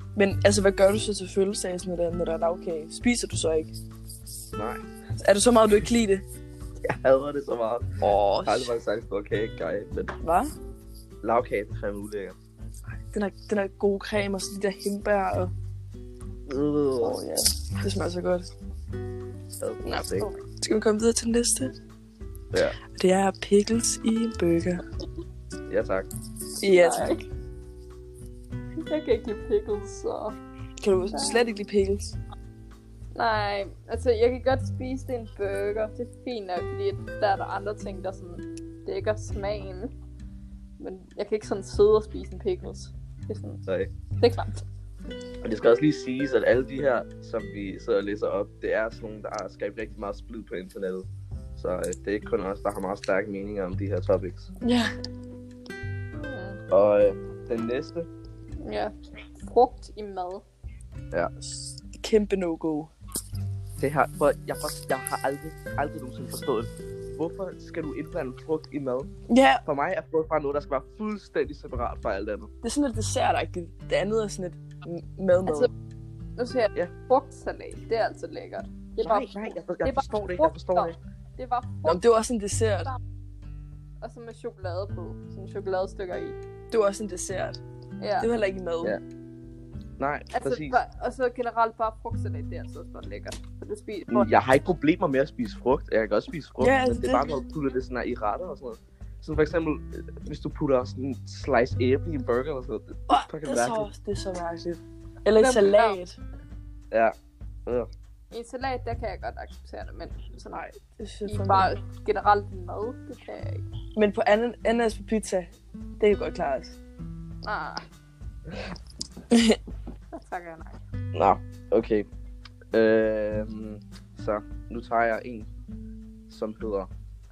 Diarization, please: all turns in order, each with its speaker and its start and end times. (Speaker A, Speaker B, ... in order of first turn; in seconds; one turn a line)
Speaker A: 0.2-3.7
Speaker B: 4.5-4.8
Speaker A: 5.2-6.2
Speaker B: 6.8-7.9
Speaker A: 8.0-8.8
Speaker B: 8.4-10.1
Speaker A: 10.2-10.5
Speaker B: 11.2-12.4
Speaker A: 13.0-15.5
Speaker B: 16.5-17.2
Speaker A: 17.0-18.5
Speaker B: 19.6-20.3
Speaker A: 19.8-21.7
Speaker A: 22.8-24.8
Speaker B: 25.7-26.1
Speaker A: 26.6-27.2
Speaker C: 26.7-27.2
Speaker C: 28.9-30.4
Speaker A: 30.8-32.2
Speaker C: 31.1-31.5
Speaker C: 33.1-39.9
Speaker C: 40.8-43.6
Speaker C: 44.2-44.6
Speaker B: 45.4-54.5
Speaker A: 54.6-54.9
Speaker C: 56.2-56.6
Speaker B: 56.7-58.1
Speaker C: 58.6-60.5
Speaker A: 61.4-62.9
Speaker B: 63.8-69.1
Speaker A: 69.3-69.6
Speaker B: 69.7-72.5
Speaker A: 72.6-75.7
Speaker C: 76.4-82.1
Speaker B: 79.0-81.0
Speaker A: 81.8-82.9
Speaker C: 84.0-86.4
Speaker A: 86.7-87.6
Speaker C: 88.0-88.3
Speaker A: 88.2-89.0
Speaker B: 90.0-90.8
Speaker C: 90.3-94.3
Speaker B: 94.1-103.9
Speaker A: 96.6-97.4
Speaker A: 103.1-106.2
Speaker C: 105.4-106.0
Speaker C: 108.3-113.7
Speaker A: 111.0-111.7
Speaker A: 114.0-116.8
Speaker C: 117.4-117.8
Speaker A: 119.3-119.6
Speaker C: 120.1-120.8
Speaker B: 121.1-122.1
Speaker B: 122.7-125.5
Speaker B: 126.3-126.9